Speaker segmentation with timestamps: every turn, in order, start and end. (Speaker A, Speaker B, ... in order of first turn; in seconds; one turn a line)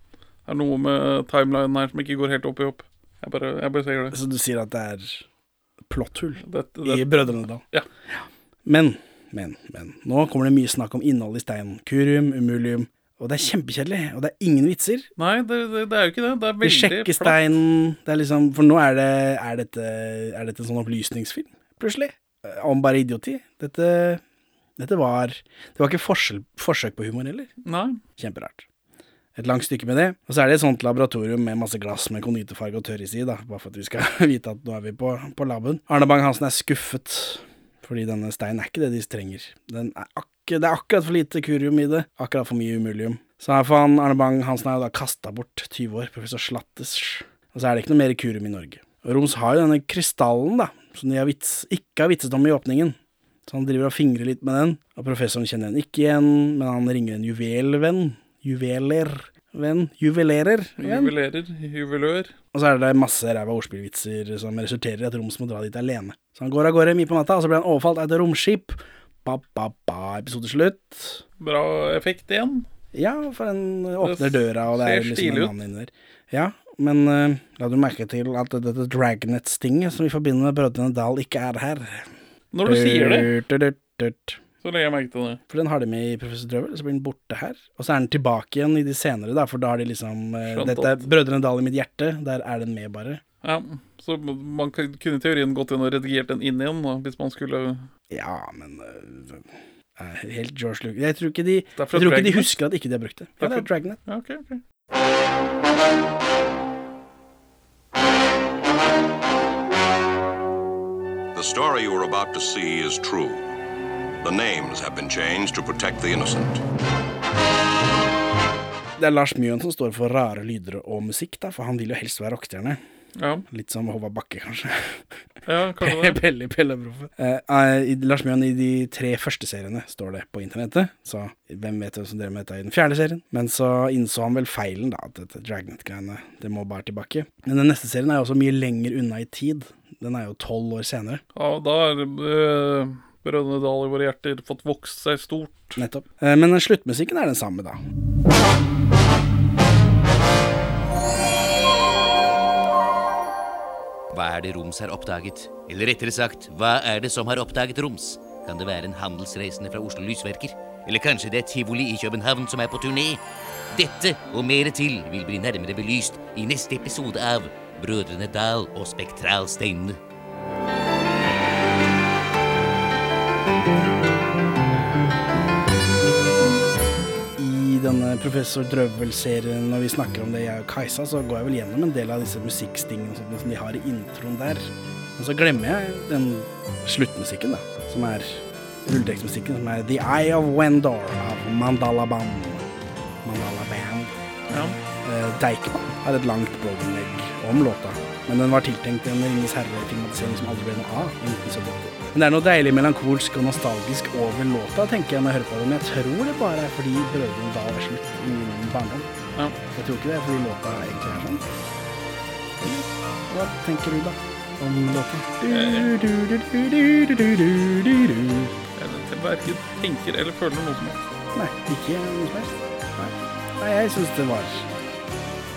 Speaker A: 0.5-4.2
Speaker B: 4.1-5.2
Speaker B: 5.9-7.6
Speaker A: 6.4-7.9
Speaker B: 8.1-15.1
Speaker A: 15.2-17.4
Speaker B: 16.6-24.2
Speaker B: 24.8-27.5
Speaker A: 27.6-28.0
Speaker B: 28.2-28.6
Speaker B: 29.4-53.0
Speaker B: 53.5-61.1
Speaker A: 60.8-62.3
Speaker B: 62.5-71.2
Speaker A: 71.4-72.7
Speaker B: 72.9-82.1
Speaker A: 74.0-75.5
Speaker A: 82.5-83.3
Speaker B: 82.6-84.4
Speaker A: 84.6-85.4
Speaker B: 85.5-93.2
Speaker A: 90.5-91.1
Speaker A: 93.4-97.9
Speaker B: 98.1-104.0
Speaker A: 101.8-102.6
Speaker A: 103.4-104.6
Speaker C: 111.3-113.5
Speaker C: 114.2-116.6
Speaker B: 119.0-122.8
Speaker A: 123.2-123.5
Speaker B: 123.5-125.0
Speaker A: 125.5-126.2
Speaker B: 125.8-141.2
Speaker A: 141.3-145.8
Speaker B: 145.8-147.8
Speaker D: 154.1-163.2
Speaker D: 163.7-170.0
Speaker B: 177.4-192.7
Speaker B: 193.2-194.1
Speaker A: 194.5-194.8
Speaker B: 195.0-209.1
Speaker B: 209.8-211.5
Speaker B: 212.6-218.5
Speaker A: 215.5-216.0
Speaker A: 218.8-221.1
Speaker B: 221.3-224.7